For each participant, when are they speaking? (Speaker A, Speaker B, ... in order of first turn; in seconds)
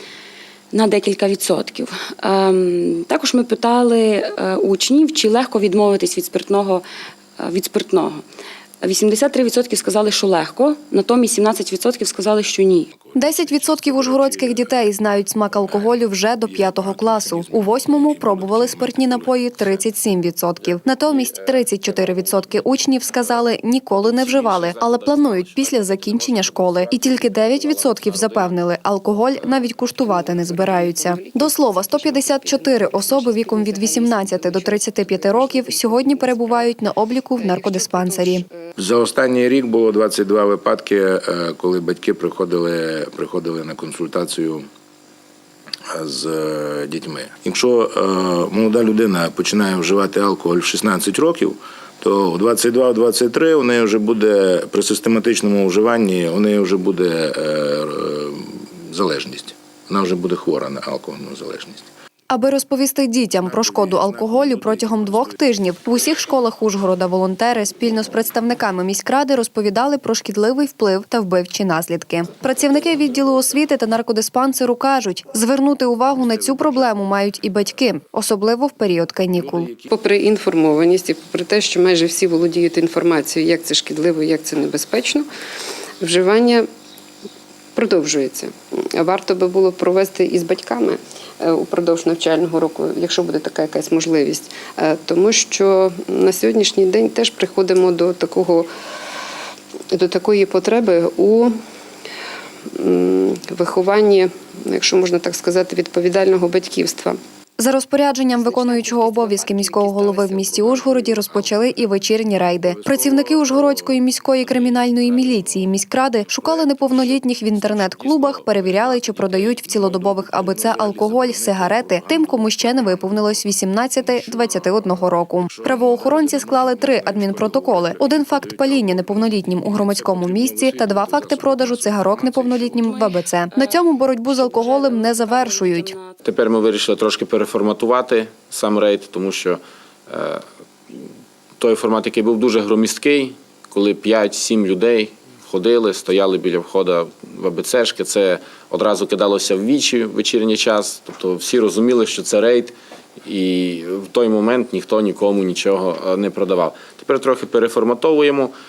Speaker A: 0.7-6.8, 7.4-8.2, 8.8-12.9, 110.0-110.3, 132.8-136.2
Speaker B: 12.9-14.9, 15.6-19.8, 38.8-44.7, 45.9-61.9, 63.4-65.4, 72.4-73.7, 76.1-77.0, 79.4-79.9, 110.5-111.5, 112.6-115.7, 116.2-132.9
Speaker C: 13.2-38.5, 62.3-79.7, 107.6-136.0
Speaker D: 20.6-28.6, 136.2-141.0, 141.6-152.7, 153.2-158.5
Speaker E: 29.9-38.7, 79.9-85.3, 86.0-86.7, 87.8-98.7, 99.9-101.5, 102.7-107.2, 109.1-109.9